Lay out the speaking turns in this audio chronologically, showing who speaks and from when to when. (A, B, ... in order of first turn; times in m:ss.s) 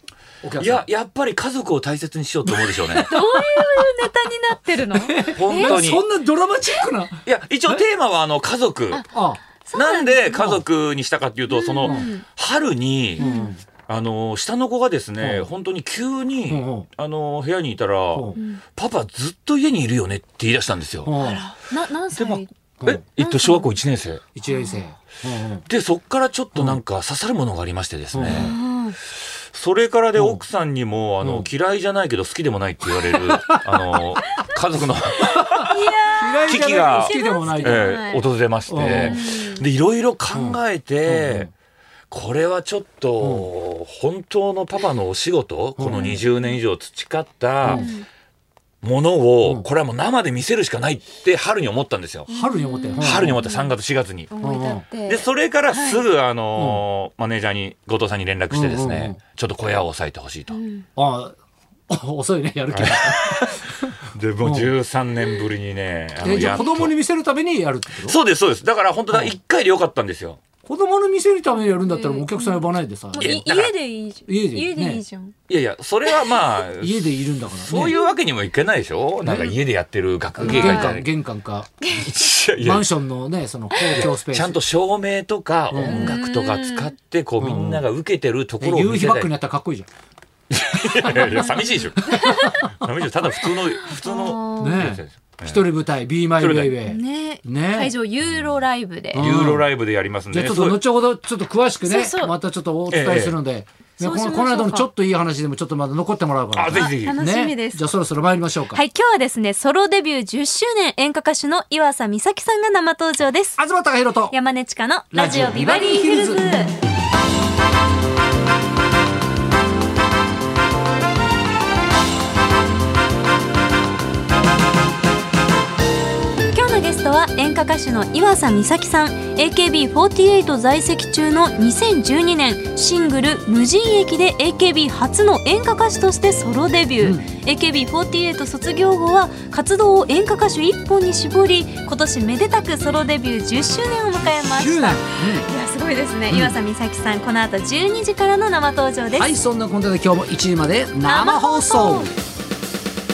0:00.4-0:00.9 A
0:00.6-0:03.1 B
0:02.5-0:03.9 A
0:03.0-0:05.8 C
0:04.9-0:07.8 A
0:05.3-0:06.0 B
0:07.2-0:09.0 B
0:08.9-0:10.4 C
0:09.1-0:09.4 A
0:09.7-0:13.2 B
0:10.3-0:10.6 A
0:11.5-0:12.2 C
0:11.8-0:12.1 A
0:13.2-0:13.5 C
0:13.2-0:13.6 A
0:13.9-0:21.1 B
0:15.2-0:15.5 A
0:16.5-0:16.9 A
0:18.1-0:18.4 A
0:18.3-0:18.6 C
0:21.0-0:21.4 A
0:21.2-0:22.5 C
0:22.1-0:24.2 B
0:23.2-0:23.7 C
0:24.4-0:25.6 A
0:24.4-0:24.9 C
0:25.7-0:28.5 B
0:28.1-0:28.5 A
0:28.2-0:28.9 C
0:29.5-0:35.8 B
0:30.2-0:30.4 A
0:31.2-0:31.5 A
0:33.6-0:34.1 A
0:35.7-0:39.6 C
0:36.2-0:38.0 A
0:36.5-0:41.5 B
0:38.7-0:39.2 A
0:40.3-0:41.5 A
0:42.1-0:47.9 B
0:43.2-0:43.5 A
0:45.8-0:46.2 A
0:47.6-0:47.9 A
0:47.7-0:48.0 C
0:48.8-0:52.3 B
0:52.3-0:53.7 C
0:52.3-0:53.4 A
0:53.0-0:54.3 B
0:54.3-0:56.0 C
0:54.4-0:54.9 A
0:55.1-1:00.6 B
0:56.5-0:56.8 A
0:58.5-0:59.2 A
1:00.5-1:00.8 C
1:01.0-1:01.3 A
1:01.9-1:03.7 A
1:02.7-1:03.6 B
1:04.1-1:07.0 B
1:04.4-1:04.7 A
1:06.2-1:08.2 A
1:08.0-1:10.4 B
1:10.6-1:13.4 A
1:11.6-1:15.3 C
1:13.2-1:13.7 B
1:14.3-1:15.0 A
1:15.5-1:21.1 B
1:16.8-1:18.0 A
1:17.7-1:18.1 C
1:19.2-1:19.6 A
1:20.4-1:21.9 A
1:20.4-1:21.0 C
1:21.8-1:22.2 C
1:22.0-1:22.9 B
1:22.5-1:24.6 A
1:23.9-1:29.3 B
1:25.7-1:26.2 A
1:25.8-1:26.9 C
1:27.4-1:27.8 A
1:28.6-1:29.9 A
1:30.5-1:35.6 B
1:31.0-1:32.6 C
1:31.1-1:31.5 A
1:32.0-1:32.5 A
1:33.4-1:34.8 C
1:34.6-1:37.9 A
1:36.4-1:36.8 B
1:36.8-1:39.2 C
1:39.1-1:39.7 A
1:39.1-1:40.8 B
1:40.3-1:48.8 A
1:41.8-1:42.3 C
1:42.9-1:43.4 B
1:44.0-1:44.9 C
1:46.5-1:47.2 B
1:46.7-1:47.8 C
1:48.7-1:53.6 C
1:53.6-1:54.3 A
1:54.2-1:56.8 C
1:55.1-1:56.4 A
2:06.4-2:29.3 C
2:17.0-2:17.2 A
2:24.2-2:25.4 A
2:26.3-2:26.6 A
2:29.1-2:32.1 A
2:31.0-2:32.1 C